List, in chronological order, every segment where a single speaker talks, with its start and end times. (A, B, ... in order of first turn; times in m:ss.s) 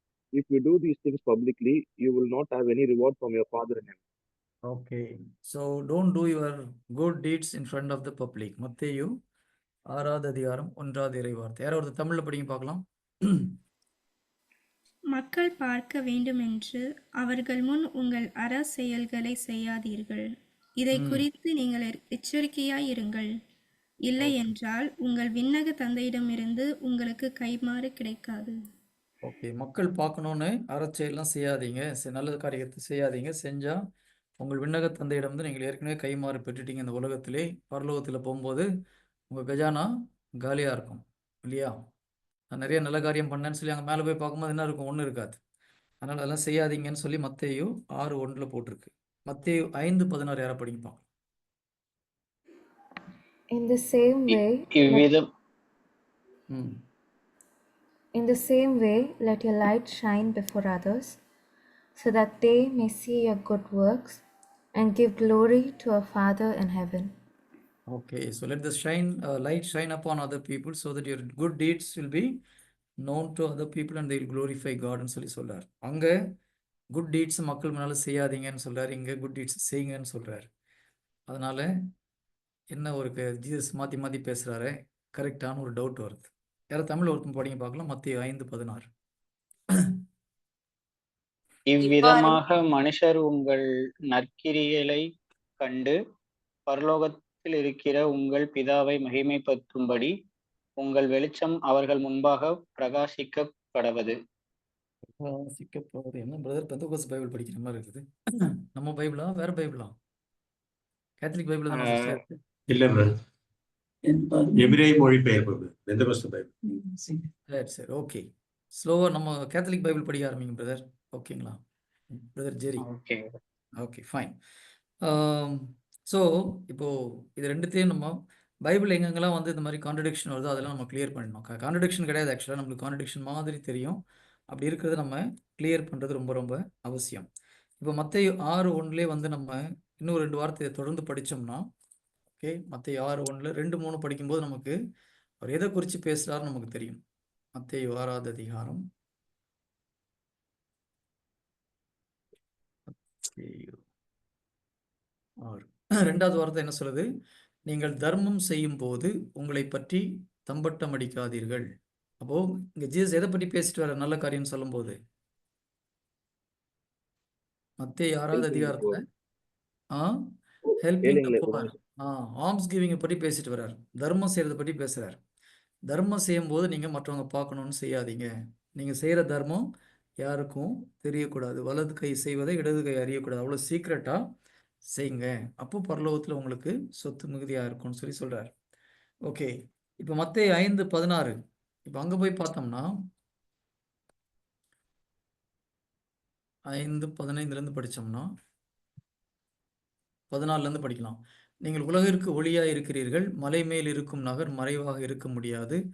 0:00.3-0:04.0 A
0:04.7-0:09.1 B
0:09.9-0:13.5 B
0:15.1-0:20.3 C
0:20.8-0:23.3 C
0:20.9-0:21.2 B
0:24.0-0:28.6 C
0:29.2-0:33.8 B
0:34.4-0:38.7 B
0:39.3-0:41.7 B
0:42.5-0:45.4 B
0:46.0-0:51.0 B
0:53.5-0:55.1 D
0:54.3-0:55.2 E
0:56.5-0:56.8 B
0:58.2-1:01.2 D
1:02.0-1:04.2 D
1:04.8-1:07.1 D
1:07.9-1:12.4 B
1:13.0-1:16.1 B
1:16.9-1:20.5 B
1:21.3-1:21.7 B
1:22.7-1:28.9 B
1:31.7-1:35.1 E
1:35.6-1:36.0 E
1:36.7-1:40.1 E
1:40.8-1:44.2 E
1:45.2-1:48.1 B
1:48.6-1:50.0 B
1:51.2-1:52.4 B
1:51.7-1:52.1 E
1:52.7-1:53.2 F
1:54.1-1:57.2 F
1:57.5-1:58.2 B
1:58.8-2:01.6 B
2:02.1-2:02.8 B
2:02.8-2:03.4 E
2:03.8-2:04.4 B
2:05.0-2:17.3 B
2:17.8-2:21.6 B
2:22.4-2:24.8 B
2:25.4-2:27.0 B
2:27.5-2:28.8 B
2:32.9-2:33.8 B
2:35.4-2:37.1 B
2:37.7-2:41.7 B
2:42.2-2:45.0 B
2:47.8-2:49.0 B
2:48.3-2:49.0 A
2:50.8-2:55.2 B
2:51.0-2:51.7 A
2:55.9-2:59.7 B
3:00.2-3:04.2 B
3:04.9-3:08.5 B
3:09.2-3:12.9 B
3:16.7-3:18.3 B
3:20.3-3:25.8 B